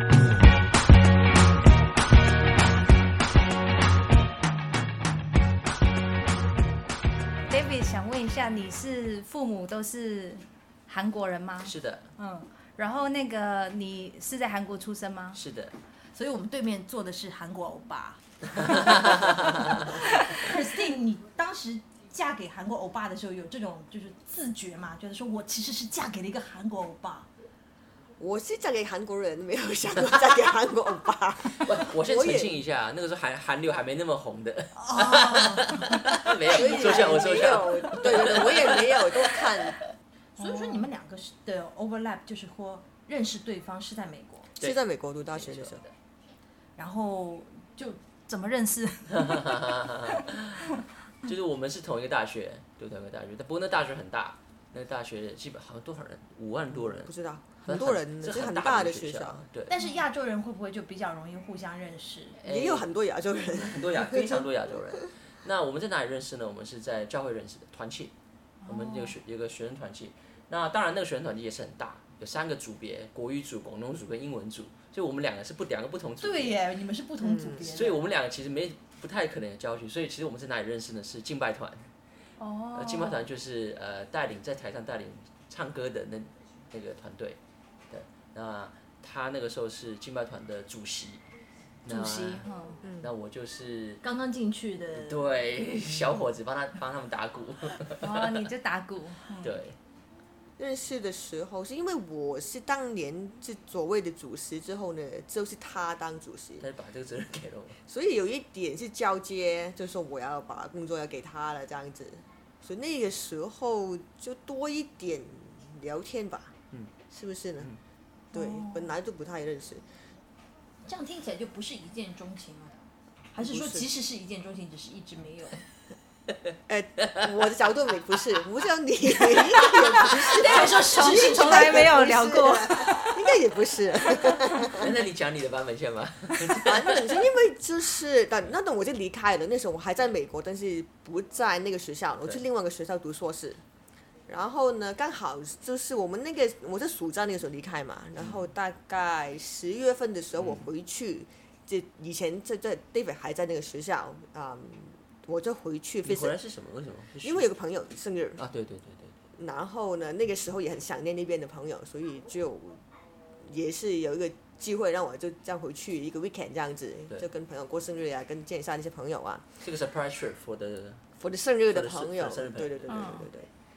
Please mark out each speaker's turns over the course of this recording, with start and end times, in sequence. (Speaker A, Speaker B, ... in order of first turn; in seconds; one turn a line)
Speaker A: 7.5-15.4
Speaker B: 11.6-12.1
Speaker B: 15.3-15.8
Speaker C: 16.1-27.3
Speaker B: 18.5-19.9
Speaker A: 19.9-20.5
Speaker D: 28.2-32.6
Speaker B: 31.4-39.1
Speaker C: 34.8-37.3
Speaker D: 36.4-39.8
Speaker C: 40.4-44.5
Speaker A: 40.4-40.9
Speaker D: 44.6-45.8
Speaker B: 45.3-45.9
Speaker C: 46.8-48.0
Speaker A: 48.3-50.2
Speaker B: 49.1-59.8
Speaker D: 56.7-59.5
Speaker C: 59.7-62.4
Speaker A: 59.8-60.0
Speaker B: 62.4-62.9
Speaker D: 62.4-64.4
Speaker B: 63.5-68.1
Speaker A: 68.6-69.2
Speaker B: 68.7-76.6
Speaker C: 76.2-78.0
Speaker D: 77.2-77.7
Speaker B: 77.6-81.9
Speaker A: 82.4-83.3
Speaker B: 82.7-91.2
Speaker B: 91.8-92.5
Speaker A: 91.8-92.8
Speaker D: 92.8-93.1
Speaker B: 93.0-94.0
Speaker C: 94.0-95.4
Speaker B: 94.9-98.5
Speaker A: 97.9-99.6
Speaker B: 99.4-99.8
Speaker D: 100.6-106.7
Speaker B: 106.6-107.8
Speaker D: 107.8-116.5
Speaker D: 117.1-117.7
Speaker D: 118.3-119.9
Speaker A: 118.3-118.9
Speaker C: 120.8-122.8
Speaker C: 123.3-125.6
Speaker D: 123.4-123.9
Speaker D: 126.7-134.9
Speaker C: 130.0-131.9
Speaker A: 131.0-133.2
Speaker B: 134.7-137.2
Speaker D: 136.6-143.6
Speaker D: 144.3-156.3
Speaker B: 148.2-148.4
Speaker B: 150.4-150.7
Speaker B: 156.0-157.5
Speaker D: 157.2-158.4
Speaker B: 158.4-159.2
Speaker D: 159.3-162.8
Speaker D: 163.4-169.6
Speaker B: 169.6-171.1
Speaker D: 171.2-173.5
Speaker B: 171.7-173.0
Speaker A: 172.9-173.3